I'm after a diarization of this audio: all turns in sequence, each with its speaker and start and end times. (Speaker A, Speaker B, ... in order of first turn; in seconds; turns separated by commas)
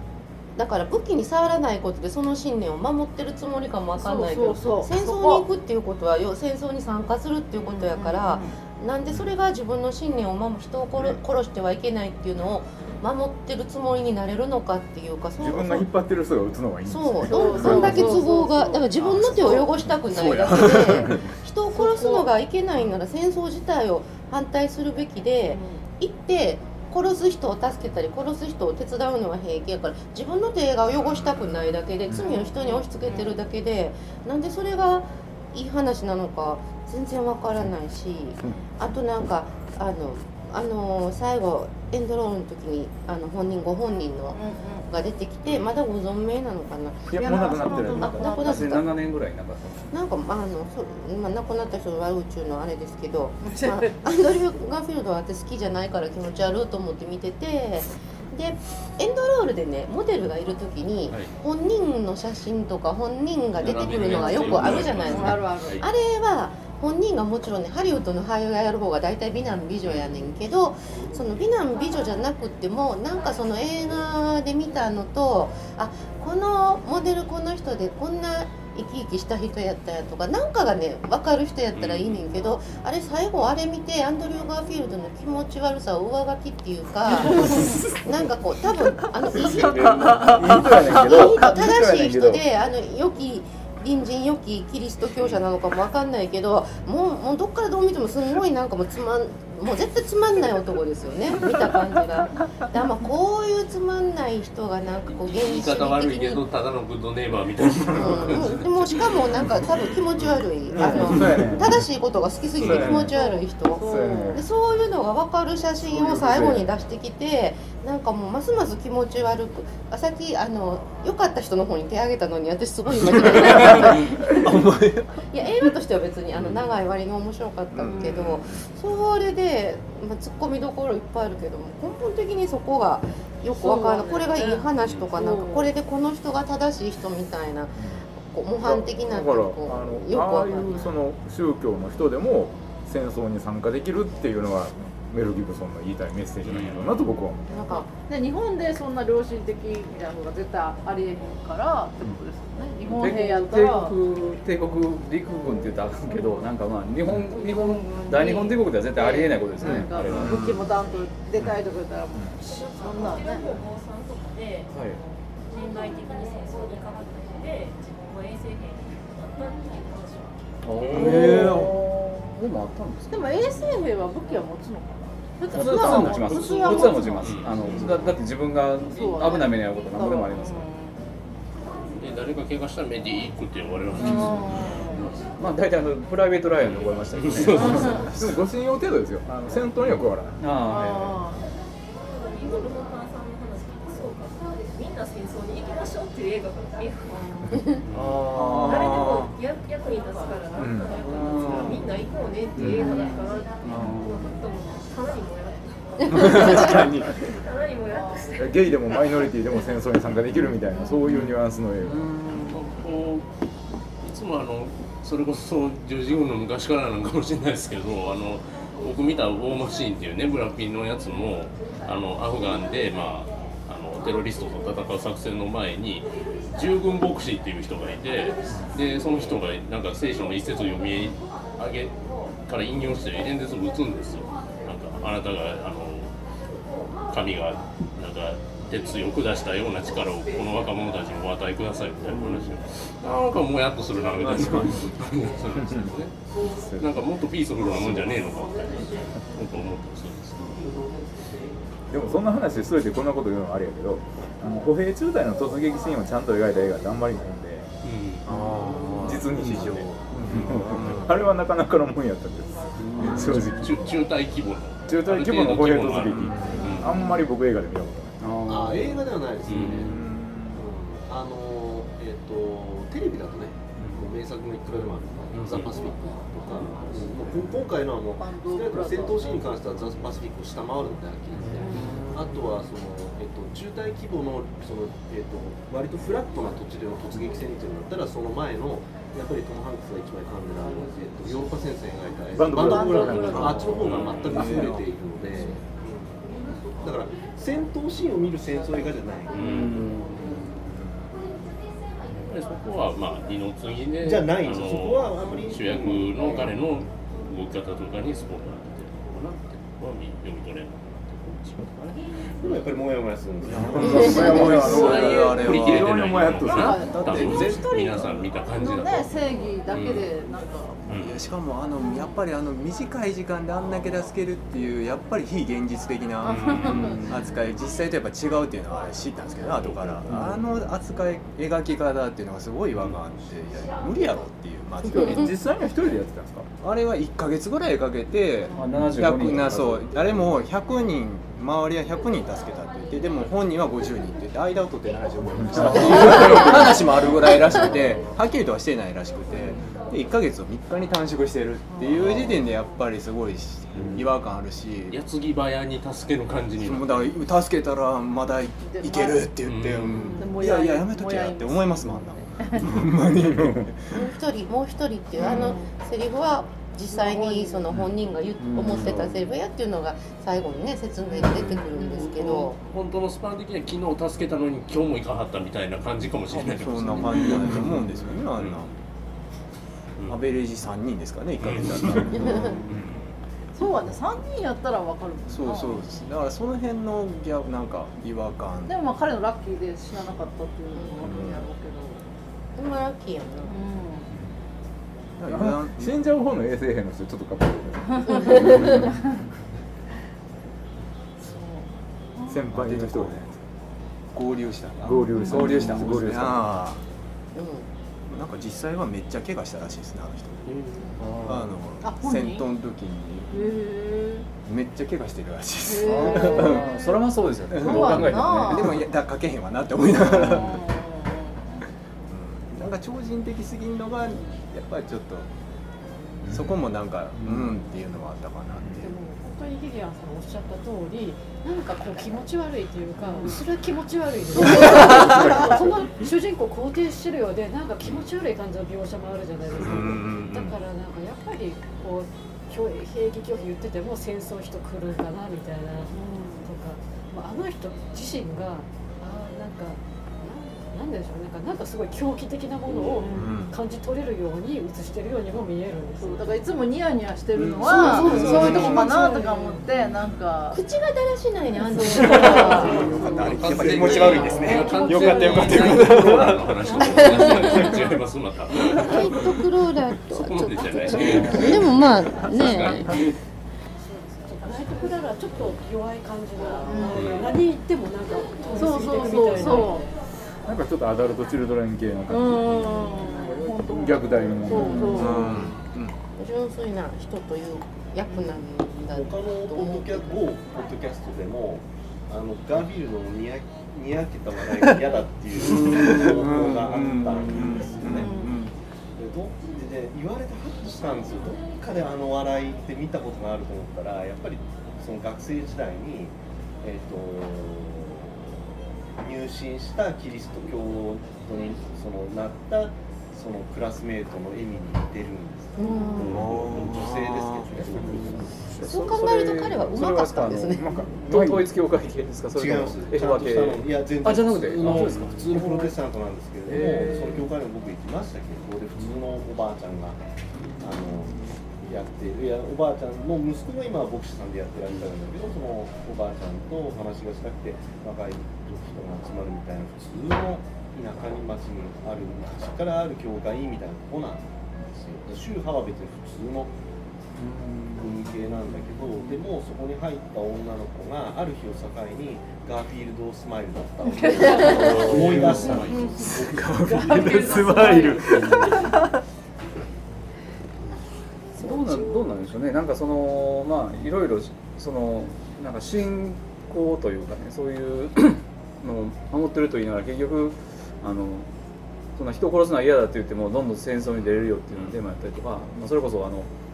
Speaker A: 0.6-15.9, Speaker B: 3.9-5.5, Speaker B: 7.6-8.6, Speaker C: 15.4-18.2, Speaker A: 16.9-47.4, Speaker B: 17.2-19.7, Speaker D: 20.1-21.3, Speaker B: 21.7-22.3, Speaker B: 25.5-25.8, Speaker B: 32.1-33.4, Speaker B: 44.3-44.9, Speaker E: 45.4-45.7, Speaker C: 47.1-48.3, Speaker B: 47.1-49.0, Speaker A: 48.0-48.9, Speaker F: 48.3-49.9, Speaker A: 49.9-106.4, Speaker B: 53.4-54.0, Speaker E: 63.6-65.8, Speaker B: 64.1-65.8, Speaker E: 69.8-70.1, Speaker E: 81.7-82.5, Speaker B: 87.2-87.8, Speaker C: 90.2-92.4, Speaker E: 95.2-95.4, Speaker E: 105.2-109.2, Speaker A: 107.9-124.4, Speaker C: 110.7-111.9, Speaker E: 112.6-112.9, Speaker C: 112.6-113.2, Speaker B: 113.1-114.4, Speaker C: 113.8-114.5, Speaker C: 115.8-116.7, Speaker D: 123.1-125.2, Speaker A: 125.3-140.9, Speaker D: 126.4-126.7, Speaker D: 127.7-128.7, Speaker B: 127.8-128.3, Speaker B: 133.5-135.7, Speaker E: 134.8-135.1, Speaker C: 137.8-138.0, Speaker C: 138.6-147.6, Speaker E: 146.4-147.0, Speaker A: 147.5-147.9, Speaker B: 148.1-153.9, Speaker F: 152.9-160.6, Speaker B: 157.2-163.5, Speaker C: 159.6-160.3, Speaker D: 160.2-160.5, Speaker G: 160.7-161.2, Speaker G: 162.4-170.8, Speaker F: 164.7-165.0, Speaker F: 170.6-173.4, Speaker D: 170.9-171.8, Speaker B: 171.1-171.7, Speaker B: 173.1-177.9, Speaker F: 175.5-180.7, Speaker E: 175.9-178.1, Speaker B: 178.9-181.0, Speaker E: 181.9-185.4, Speaker F: 184.0-184.4, Speaker B: 184.0-185.2, Speaker F: 185.3-188.0, Speaker E: 186.6-188.0, Speaker C: 187.4-190.4, Speaker B: 187.5-188.1, Speaker D: 187.9-188.3, Speaker F: 190.4-191.3, Speaker B: 190.7-191.5, Speaker G: 191.9-197.6, Speaker E: 197.8-198.2, Speaker F: 197.9-199.1, Speaker D: 198.3-199.3, Speaker G: 198.6-209.8, Speaker C: 200.6-201.0, Speaker F: 201.0-201.6, Speaker D: 201.2-201.8, Speaker C: 202.6-202.8, Speaker F: 202.6-204.5, Speaker D: 206.1-207.2, Speaker C: 206.6-206.8, Speaker B: 207.9-208.2, Speaker C: 208.4-212.1, Speaker B: 210.7-211.0, Speaker F: 211.8-212.6, Speaker E: 212.5-213.3, Speaker E: 214.0-236.1, Speaker E: 237.1-250.8, Speaker D: 244.2-244.8, Speaker C: 245.6-245.9, Speaker C: 246.6-247.0, Speaker C: 251.9-257.7, Speaker E: 257.8-258.3, Speaker D: 258.2-261.3, Speaker C: 259.0-263.9, Speaker F: 262.8-264.0, Speaker E: 263.0-267.1, Speaker C: 264.9-268.2, Speaker D: 265.9-266.8, Speaker F: 268.2-269.1, Speaker H: 268.5-270.0, Speaker E: 269.4-270.0, Speaker D: 269.5-270.6, Speaker H: 270.5-295.6, Speaker E: 273.8-274.1, Speaker E: 275.3-275.9, Speaker E: 276.5-277.3, Speaker B: 278.2-279.3, Speaker E: 281.3-281.8, Speaker B: 281.6-281.9, Speaker F: 281.7-282.1, Speaker C: 292.3-294.0, Speaker B: 292.6-293.6, Speaker D: 293.1-295.7, Speaker E: 293.7-294.7, Speaker H: 296.8-299.6, Speaker E: 299.3-300.5, Speaker F: 299.4-300.4, Speaker D: 300.6-301.2, Speaker E: 302.1-312.8, Speaker H: 304.0-306.5, Speaker H: 312.4-314.2, Speaker D: 313.4-318.1, Speaker C: 313.6-317.6, Speaker B: 313.9-315.4, Speaker E: 314.3-320.1, Speaker B: 316.4-320.8, Speaker E: 320.9-321.2, Speaker D: 320.9-335.4, Speaker B: 321.8-322.2, Speaker B: 326.2-327.1, Speaker E: 326.2-326.9, Speaker F: 326.8-327.2, Speaker E: 329.6-330.1, Speaker C: 330.1-330.4, Speaker C: 334.9-336.5, Speaker D: 336.6-355.0, Speaker F: 338.5-340.3, Speaker C: 345.4-346.2, Speaker B: 351.7-352.2, Speaker E: 354.9-357.1, Speaker D: 356.6-364.0, Speaker B: 358.6-359.3, Speaker E: 359.4-360.1, Speaker B: 359.9-362.7, Speaker C: 363.4-363.6, Speaker A: 363.9-372.6, Speaker B: 365.2-365.7, Speaker B: 366.9-367.7, Speaker F: 368.4-369.1, Speaker D: 368.7-369.1, Speaker B: 371.1-372.4, Speaker D: 371.3-371.6, Speaker E: 371.8-378.8, Speaker D: 376.4-378.7, Speaker D: 380.1-382.7, Speaker E: 381.4-383.0, Speaker B: 383.5-385.9, Speaker D: 385.3-388.8, Speaker B: 388.7-392.1, Speaker A: 390.7-391.0, Speaker D: 391.0-391.5, Speaker A: 392.6-393.6, Speaker B: 393.5-394.1, Speaker D: 395.2-396.0, Speaker C: 395.3-398.9, Speaker B: 398.0-399.1, Speaker B: 401.2-402.5, Speaker C: 402.3-403.4, Speaker D: 402.5-403.3, Speaker D: 404.1-406.8, Speaker C: 404.8-406.6, Speaker F: 405.6-405.9, Speaker A: 407.3-407.7, Speaker D: 408.1-413.5, Speaker E: 410.5-410.9, Speaker F: 411.0-411.6, Speaker B: 411.8-412.4, Speaker B: 413.3-414.3, Speaker D: 414.4-416.7, Speaker B: 415.6-417.0, Speaker F: 415.8-418.8, Speaker D: 417.5-420.7, Speaker B: 417.6-418.8, Speaker B: 420.0-421.4, Speaker D: 422.1-425.3, Speaker D: 426.3-428.9, Speaker I: 428.8-456.5, Speaker C: 434.5-435.7, Speaker D: 434.5-435.2, Speaker D: 439.5-440.6, Speaker B: 445.9-446.5, Speaker B: 452.9-453.3, Speaker D: 453.0-453.6, Speaker B: 456.0-460.6, Speaker D: 457.3-458.8, Speaker I: 457.6-459.7, Speaker A: 457.6-459.3, Speaker A: 460.5-463.1, Speaker D: 461.8-466.5, Speaker E: 462.1-469.5, Speaker I: 462.9-466.0, Speaker B: 463.9-464.9, Speaker I: 466.6-467.8, Speaker A: 466.8-467.8, Speaker A: 468.7-472.9, Speaker E: 470.1-473.1, Speaker I: 473.8-479.9, Speaker B: 476.6-477.3, Speaker E: 476.9-477.4, Speaker B: 478.5-479.9, Speaker C: 480.4-485.4, Speaker B: 482.1-485.3, Speaker F: 484.5-484.9, Speaker D: 484.6-485.9, Speaker A: 486.2-490.2, Speaker H: 488.8-498.1, Speaker D: 495.4-498.5, Speaker B: 497.9-498.4, Speaker H: 498.9-518.4, Speaker A: 515.6-516.3, Speaker B: 515.6-516.2, Speaker D: 516.0-518.2, Speaker F: 518.5-525.7, Speaker A: 518.6-520.7, Speaker C: 519.8-521.5, Speaker H: 522.3-530.0, Speaker D: 524.9-525.1, Speaker D: 526.5-527.0, Speaker F: 526.5-527.0, Speaker H: 530.6-546.5, Speaker F: 547.2-548.0, Speaker H: 547.8-557.4, Speaker B: 553.8-554.9, Speaker E: 554.4-556.4, Speaker F: 554.8-555.4, Speaker B: 555.5-556.1, Speaker D: 556.1-558.9, Speaker B: 556.6-558.4, Speaker I: 556.8-557.8, Speaker F: 561.4-571.3, Speaker B: 561.4-562.0, Speaker F: 572.0-576.3, Speaker E: 574.5-574.8